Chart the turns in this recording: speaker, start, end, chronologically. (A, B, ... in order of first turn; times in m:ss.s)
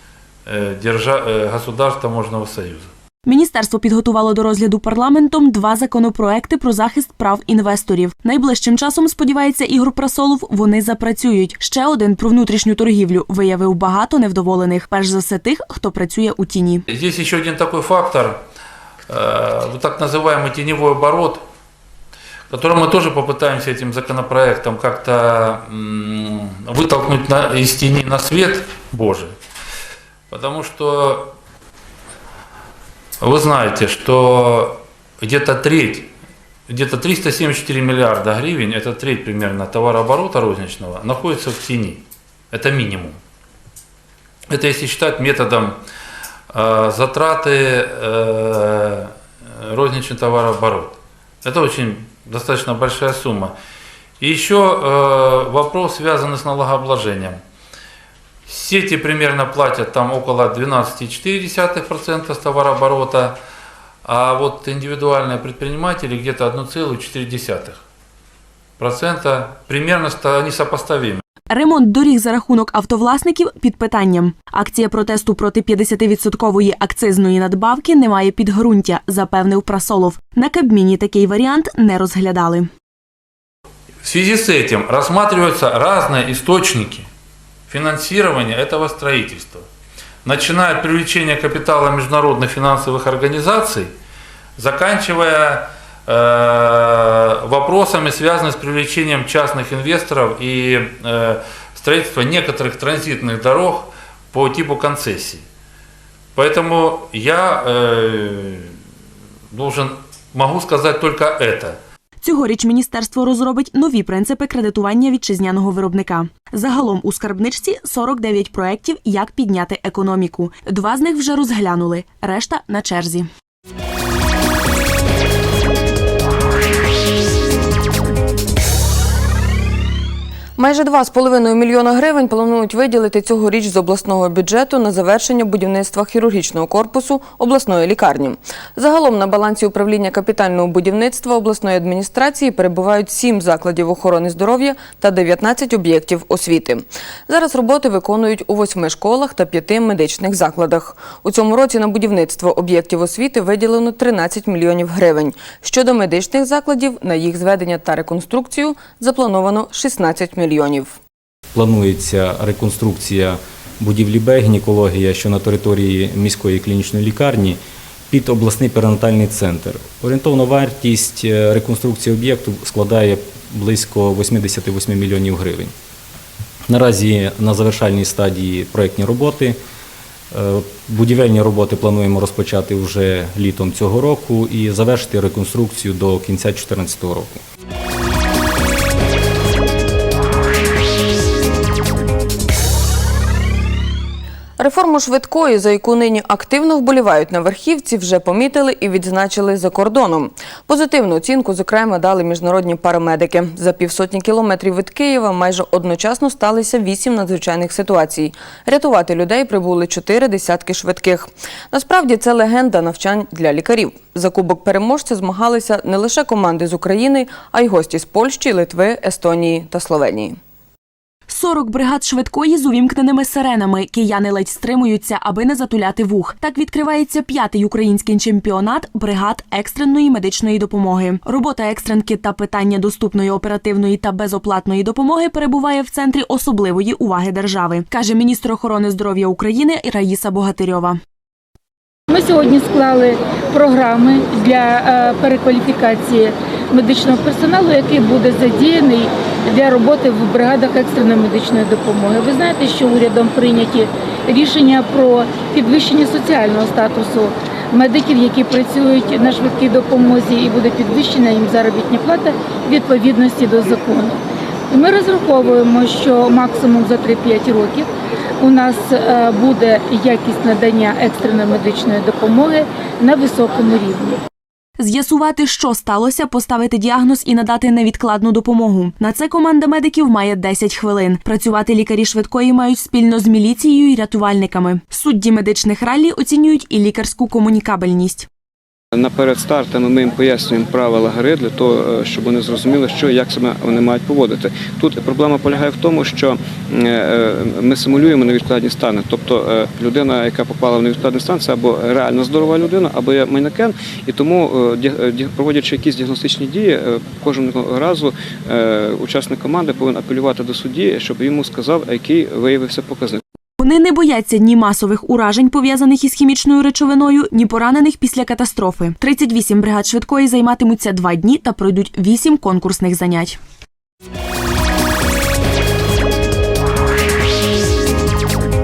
0:00.4-0:02.9 A
0:03.2-0:16.8 B
0:16.9-0:18.4 A
0:19.1-0:21.4 A
0:22.5-0:29.3 A
0:30.3-0:31.3 A
0:33.2-0:36.1 A
0:36.7-0:43.2 A
0:44.5-0:45.8 A
0:46.5-0:53.5 A
0:54.2-0:57.4 A
0:58.5-1:03.4 A
1:04.0-1:07.8 A
1:08.8-1:11.2 A
1:11.5-1:22.7 B
1:24.0-1:27.1 A
1:27.7-1:29.6 A
1:30.2-1:33.9 A
1:34.6-1:45.4 A
1:46.3-1:48.8 A
1:49.5-1:51.8 A
1:52.2-2:03.3 B
2:10.6-2:41.0 C
2:41.5-2:55.7 D
2:56.7-2:59.6 D
3:00.3-3:07.4 D
3:14.6-3:40.4 C
3:41.3-4:01.0 B
4:02.1-4:27.9 E
4:28.4-4:34.2 E
4:34.8-4:48.3 B
4:48.9-5:13.2 F
5:13.6-5:23.4 B